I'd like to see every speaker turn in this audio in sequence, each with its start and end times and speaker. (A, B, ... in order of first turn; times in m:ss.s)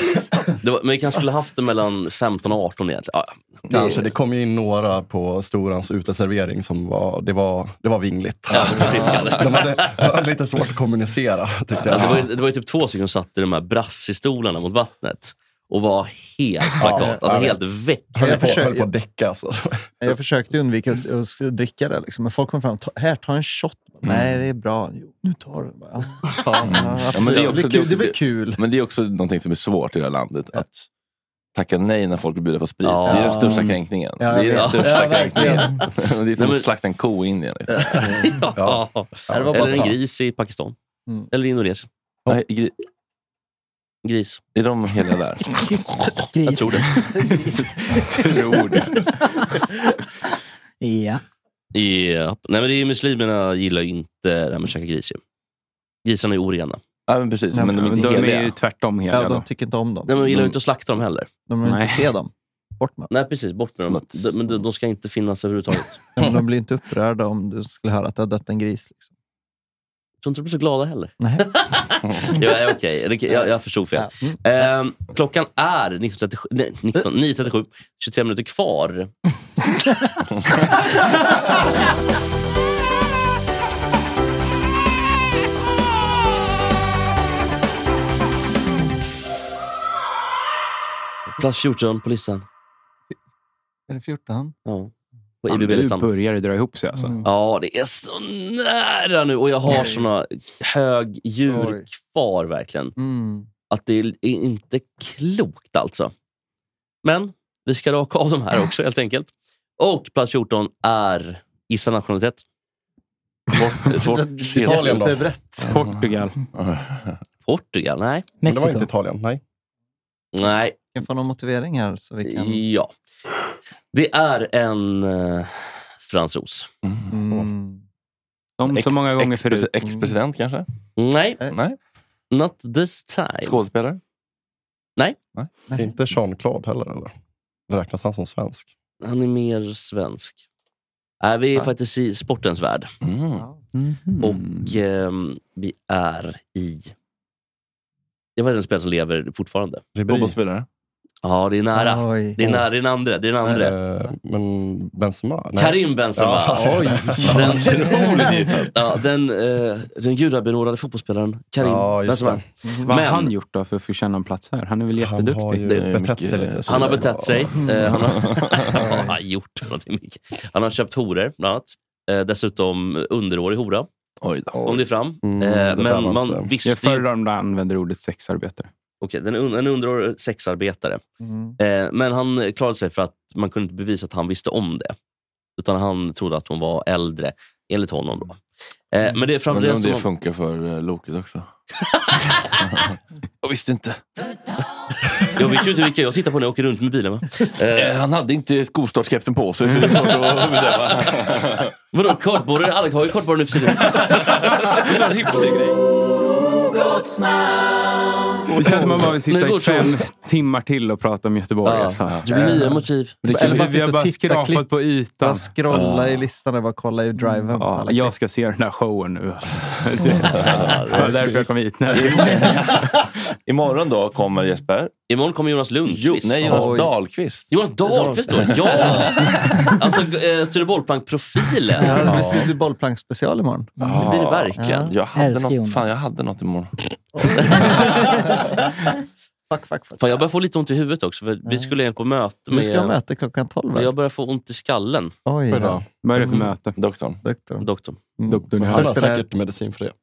0:00.6-0:04.1 A
0:03.7-0:12.3 B
0:08.5-0:10.0 A
0:08.6-0:09.3 C
0:11.9-0:18.5 A
0:16.8-0:17.6 B
0:16.9-0:17.4 D
0:18.1-0:20.0 B
0:18.2-0:18.9 D
0:20.0-0:28.6 D
0:24.0-0:24.4 C
0:26.6-0:30.9 C
0:27.1-0:27.5 A
0:31.5-0:37.9 C
0:32.8-0:33.5 A
0:33.1-0:33.4 D
0:33.4-0:33.8 E
0:34.2-0:35.8 D
0:34.5-0:35.7 A
0:36.4-0:36.7 A
0:37.8-0:38.0 D
0:37.8-0:40.8 A
0:38.0-0:39.9 B
0:39.3-0:39.9 D
0:41.3-0:41.9 A
0:42.3-0:42.7 C
0:44.0-0:44.4 A
0:44.5-0:45.4 C
0:46.3-0:47.0 F
0:46.4-0:47.0 A
0:47.2-0:49.0 E
0:49.2-0:49.5 F
0:50.8-0:51.2 F
0:51.7-0:55.2 A
0:56.0-0:56.8 A
0:57.1-0:58.6 C
0:57.5-0:58.3 D
0:57.8-0:59.4 E
0:59.1-1:00.2 D
1:00.1-1:01.3 A
1:00.2-1:00.5 C
1:01.5-1:03.1 D
1:01.6-1:02.1 E
1:03.1-1:06.0 A
1:03.8-1:04.2 C
1:06.2-1:09.0 D
1:10.2-1:19.1 A
1:11.2-1:11.5 D
1:13.9-1:14.4 D
1:31.4-1:32.4 A
1:33.9-1:34.5 D
1:34.6-1:34.9 A
1:35.4-1:36.1 A
1:35.5-1:37.2 E
1:36.9-1:37.2 D
1:37.2-1:42.9 A
1:39.6-1:40.0 D
1:41.5-1:41.8 D
1:43.0-1:43.5 D
1:43.7-1:46.1 A
1:47.0-1:52.4 A
1:53.5-1:55.0 C
1:53.9-1:55.7 D
1:54.6-1:55.2 B
1:55.7-1:56.4 E
1:56.5-1:57.2 C
1:57.4-1:58.3 A
1:58.4-1:58.9 F
1:58.4-1:59.4 B
2:00.3-2:00.8 A
2:00.9-2:02.6 D
2:02.2-2:02.9 A
2:03.9-2:06.7 A
2:06.8-2:07.2 C
2:07.1-2:07.8 D
2:08.6-2:09.8 E
2:08.7-2:10.7 C
2:11.0-2:11.4 A
2:11.4-2:11.8 C
2:12.3-2:13.6 A
2:13.4-2:14.0 C
2:15.7-2:16.0 D
2:15.8-2:17.1 B
2:17.7-2:18.7 B
2:19.0-2:20.4 A
2:21.2-2:22.9 A
2:23.0-2:23.5 C
2:23.4-2:23.7 D
2:23.9-2:24.8 E
2:24.2-2:26.9 A
2:28.4-2:29.8 A
2:29.9-2:30.4 B
2:30.0-2:30.7 C
2:31.2-2:33.7 A
2:31.7-2:32.6 D
2:33.4-2:33.7 D
2:33.4-2:37.8 B
2:35.6-2:38.2 A
2:37.2-2:38.7 C
2:37.8-2:38.6 D
2:38.7-2:43.3 A
2:41.6-2:42.4 B
2:42.6-2:42.9 D
2:42.8-2:45.7 E
2:45.0-2:47.5 B
2:45.6-2:48.8 C
2:46.7-2:53.9 A
2:48.7-2:49.2 D
2:54.2-2:54.7 C
2:54.6-2:57.0 A
2:55.2-2:56.5 B
2:56.6-2:58.7 E
2:59.0-3:01.0 A
3:01.2-3:01.6 D
3:01.6-3:05.0 A
3:05.6-3:08.4 A
3:08.9-3:10.1 A
3:09.5-3:11.5 C
3:12.1-3:12.5 A
3:13.4-3:14.0 C
3:15.4-3:18.0 A
3:17.7-3:21.7 C
3:19.6-3:20.0 E
3:19.8-3:21.3 A
3:21.9-3:24.9 A
3:24.0-3:25.8 C
3:28.5-3:32.2 E
3:29.2-3:30.0 A
3:31.6-3:33.2 A
3:32.0-3:32.7 C
3:32.3-3:32.6 D
3:33.2-3:34.7 D
3:33.2-3:33.7 C
3:33.2-3:35.5 E
3:35.2-3:38.1 D
3:35.7-3:36.3 C
3:37.6-3:42.8 E
3:40.3-3:41.0 C
3:40.3-3:41.3 A
3:41.1-3:41.4 D
3:41.9-3:44.9 C
3:45.1-3:46.7 A
3:45.9-3:47.5 C
3:46.4-3:46.9 D
3:47.5-3:52.2 A
3:47.9-3:48.2 D
3:48.3-3:49.6 C
3:48.7-3:49.1 D
3:51.8-3:53.8 D
3:52.0-3:52.4 C
3:52.1-3:52.4 B
3:53.8-3:56.8 C
3:53.9-3:54.9 A
3:54.6-3:54.9 D
3:55.1-3:55.9 F
3:57.2-3:58.5 D
3:57.3-3:57.9 C
3:59.5-4:00.0 D
4:00.0-4:02.9 A
4:01.4-4:01.7 D
4:02.5-4:03.9 D
4:03.7-4:05.1 A
4:05.2-4:06.5 D
4:05.5-4:05.8 B
4:06.0-4:06.8 E
4:06.7-4:07.2 C
4:07.2-4:07.7 D
4:07.6-4:08.0 A
4:08.2-4:09.3 D
4:08.3-4:09.1 E
4:08.6-4:09.9 B